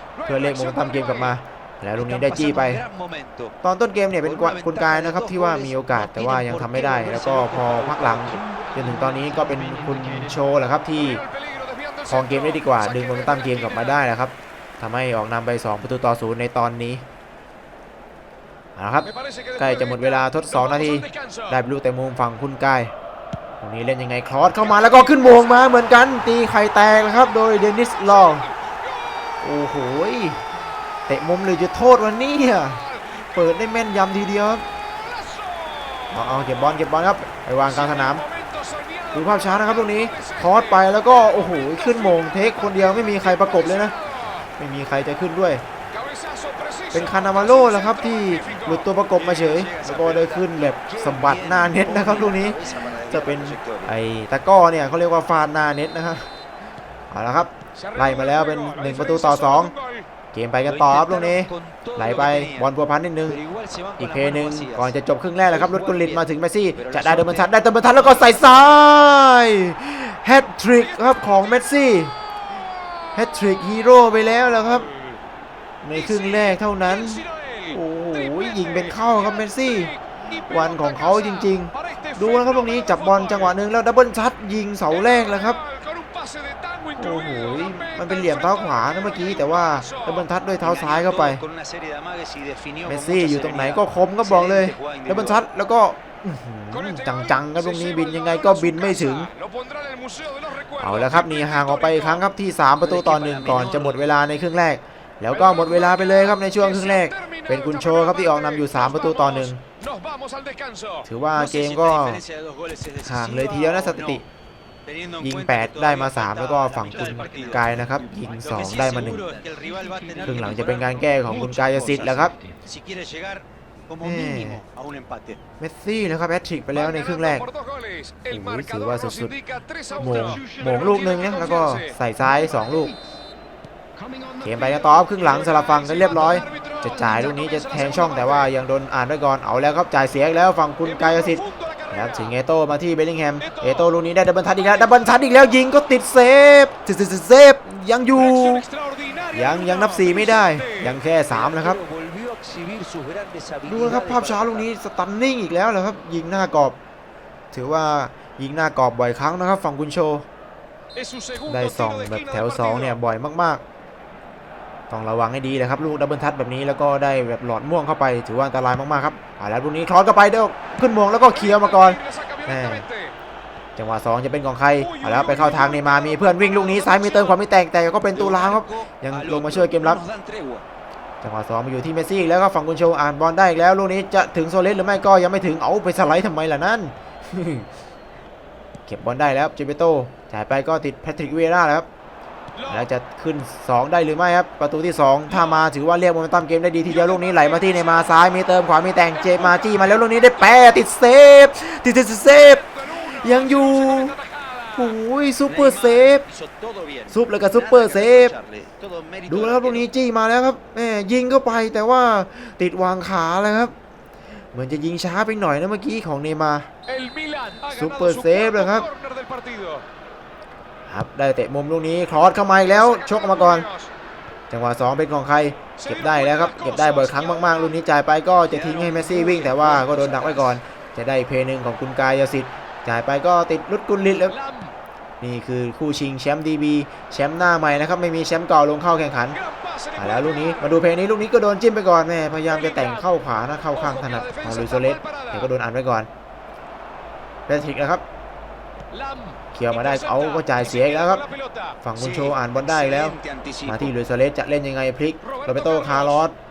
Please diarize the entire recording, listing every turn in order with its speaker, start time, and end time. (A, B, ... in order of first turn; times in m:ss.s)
0:00.2-0:02.8 A
0:00.8-0:01.1 B
0:02.1-0:03.5 C
0:03.6-0:11.2 A
0:04.3-0:08.4 C
0:12.1-0:17.0 A
0:18.8-0:22.9 A
0:23.6-0:28.5 A
0:29.4-0:30.4 A
0:31.1-0:34.6 A
0:36.1-0:38.2 A
0:39.1-0:43.9 A
0:44.6-0:45.6 A
0:46.9-0:56.3 A
0:49.2-0:53.9 C
0:57.1-0:59.7 A
0:58.5-0:59.1 B
1:00.3-1:03.4 A
1:00.7-1:02.7 C
1:03.4-1:04.9 C
1:04.0-1:12.1 A
1:05.5-1:06.2 C
1:06.8-1:07.5 C
1:13.2-1:14.9 A
1:15.8-1:25.6 A
1:26.0-1:27.0 B
1:27.0-1:31.4 A
1:27.6-1:27.9 B
1:30.6-1:35.4 C
1:32.9-1:39.3 A
1:39.3-1:40.2 B
1:40.8-1:49.6 A
1:42.9-1:44.0 C
1:50.1-1:50.8 B
1:51.1-1:52.2 A
1:51.4-1:54.2 C
1:53.0-1:54.2 A
1:54.9-1:57.6 C
1:55.2-1:59.3 A
1:58.5-2:05.4 C
2:00.2-2:02.4 A
2:04.0-2:04.6 A
2:05.6-2:07.5 A
2:08.3-2:09.4 A
2:09.7-2:10.0 B
2:10.0-2:12.9 A
2:14.4-2:28.7 A
2:21.2-2:21.8 B
2:29.3-2:31.8 A
2:31.3-2:34.6 C
2:33.6-2:36.8 A
2:37.5-2:40.3 A
2:41.0-2:41.4 B
2:41.4-2:43.6 A
2:44.9-2:52.8 A
2:53.8-3:00.0 A
2:58.2-3:00.6 C
3:01.2-3:07.7 A
3:08.9-3:11.9 A
3:12.6-3:24.2 A
3:24.7-3:26.3 A
3:25.5-3:27.1 C
3:27.1-3:28.3 A
3:27.6-3:29.8 C
3:29.3-3:33.7 A
3:34.5-3:36.7 A
3:37.0-3:37.6 B
3:37.7-3:38.9 A
3:39.2-3:39.8 B
3:40.9-3:43.7 A
3:44.5-3:54.4 A
3:46.3-3:46.6 B
3:48.6-3:50.4 C
3:55.2-3:59.4 A
4:00.0-4:06.1 A
4:07.5-4:08.0 A
4:09.5-4:11.3 A
4:11.8-4:16.4 A
4:12.0-4:12.4 C
4:12.9-4:13.8 C